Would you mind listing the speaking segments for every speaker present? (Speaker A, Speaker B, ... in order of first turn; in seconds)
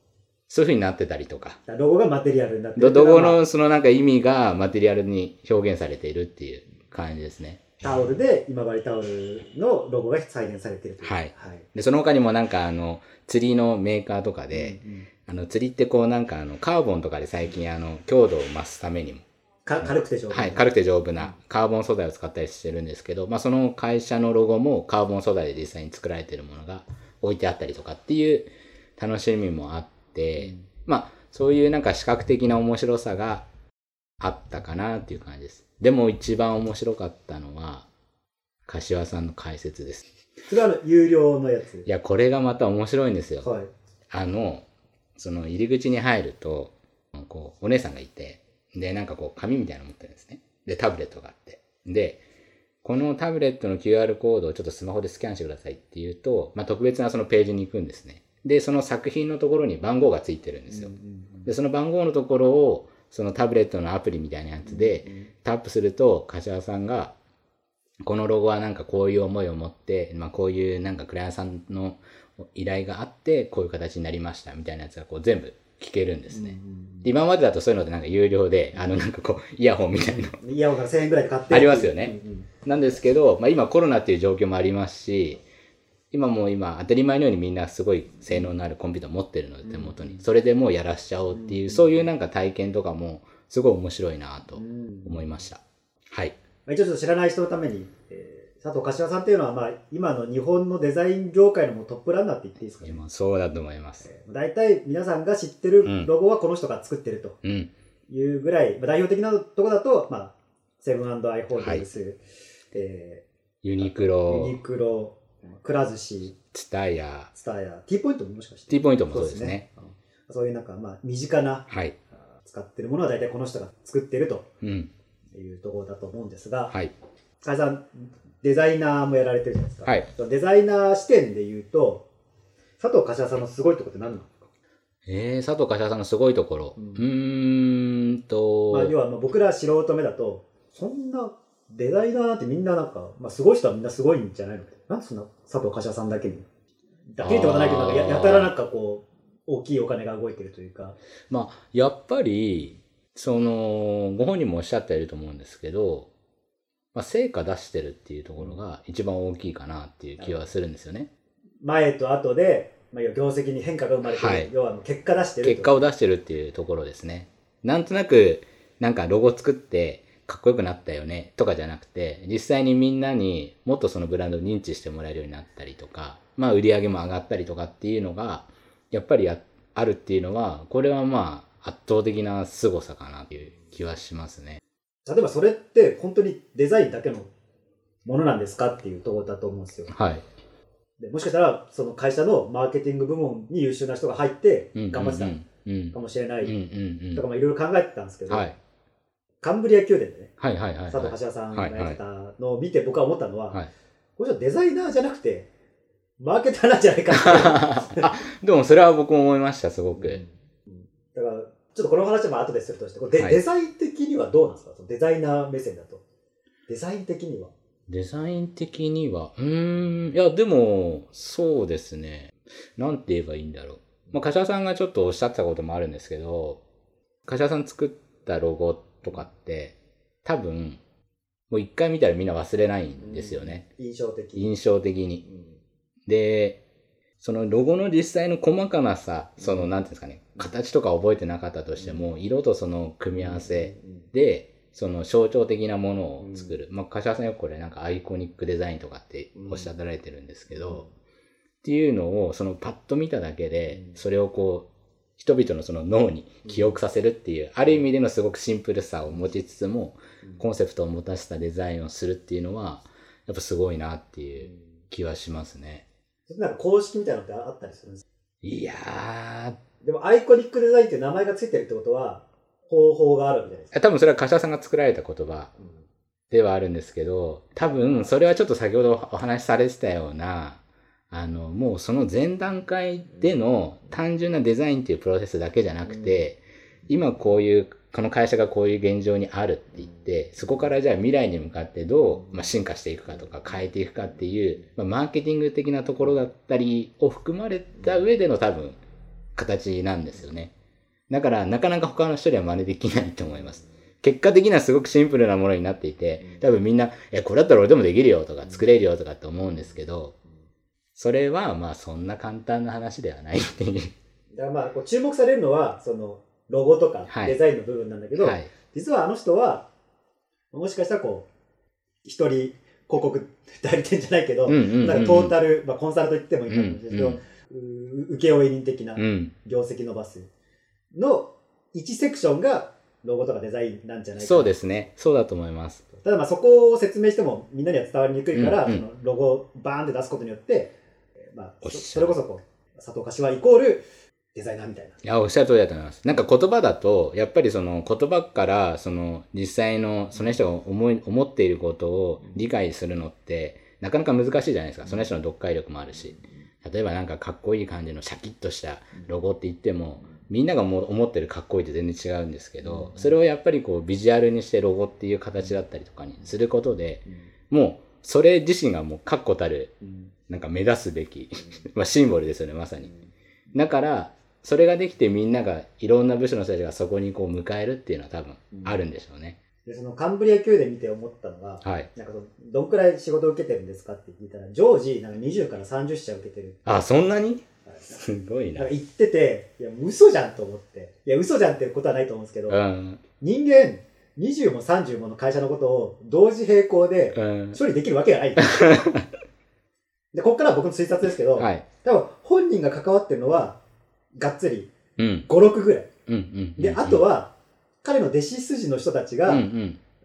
Speaker A: 0.5-1.6, 2.8-7.6, 11.0-19.2, 19.8-33.5, 34.2-37.9, 38.7-40.0, 41.9-43.5, 44.1-44.6, 45.2-52.2, 52.8-60.9, 61.5-67.1, 68.0-80.4, 81.5-85.4, 86.1-96.3, 102.8-104.0, 105.8-106.1, 107.4-107.7, 111.6-111.8, 113.6-114.6, 116.5-117.3, 118.7-119.7, 121.7-122.0, 124.6-124.9, 135.1-138.9, 147.2-148.5, 151.3-156.1, 156.9-161.1, 164.1-164.5, 165.4-184.6, 189.9-190.2, 194.8-197.2, 198.3-198.6, 200.4-202.0, 207.1-210.2, 217.9-226.6, 227.3-230.8, 231.5-233.6, 234.4-235.2, 236.1-236.6, 237.2-250.8, 251.6-254.7, 255.2-265.9, 268.4-269.6, 273.7-275.5, 276.3-298.8, 299.4-300.5, 301.1-310.2, 311.0-313.9, 317.1-317.4, 318.2-318.5, 324.5-325.4, 326.5-327.2, 329.0-329.3, 334.2-335.8, 338.3-338.8, 341.6-342.2, 345.0-369.7, 370.3-372.9, 373.5-379.4, 381.6-381.9, 386.7-387.4, 388.0-388.7, 392.5-393.0, 397.1-397.6, 398.4-399.1, 401.4-401.6, 405.0-405.3, 406.1-407.0, 409.3-409.8
Speaker B: 1.7-3.4, 7.8-11.7, 14.5-15.1, 19.7-20.7, 30.4-30.7, 40.5-41.9, 43.4-43.7, 60.7-61.5, 64.7-65.3, 76.3-77.1, 80.0-82.5, 89.6-90.2, 91.3-92.0, 94.6-95.4, 96.7-103.0, 104.0-107.4, 108.1-112.2, 112.7-113.2, 114.3-116.4, 117.3-121.7, 122.4-124.5, 125.3-126.7, 127.4-132.1, 132.8-134.3, 136.8-137.1, 138.7-146.5, 147.1-151.0, 160.2-160.5, 161.6-165.8, 185.1-187.3, 188.1-189.9, 191.0-195.4, 195.9-196.6, 197.1-198.5, 199.4-200.3, 200.9-203.6, 204.2-205.5, 206.2-208.1, 210.0-216.0, 216.7-217.5, 233.0-234.5, 243.2-244.1, 246.2-246.5, 249.4-249.7, 266.3-268.0, 269.8-273.7, 277.7-278.1, 314.4-319.7, 320.5-321.3, 322.1-330.3, 330.9-334.6, 336.0-340.8, 341.3-345.0, 362.6-363.1, 378.5-378.8, 379.6-386.9, 387.7-388.0, 388.6-392.6, 393.2-398.9, 400.1-403.6, 404.1-404.8, 405.3-405.9, 406.6-409.5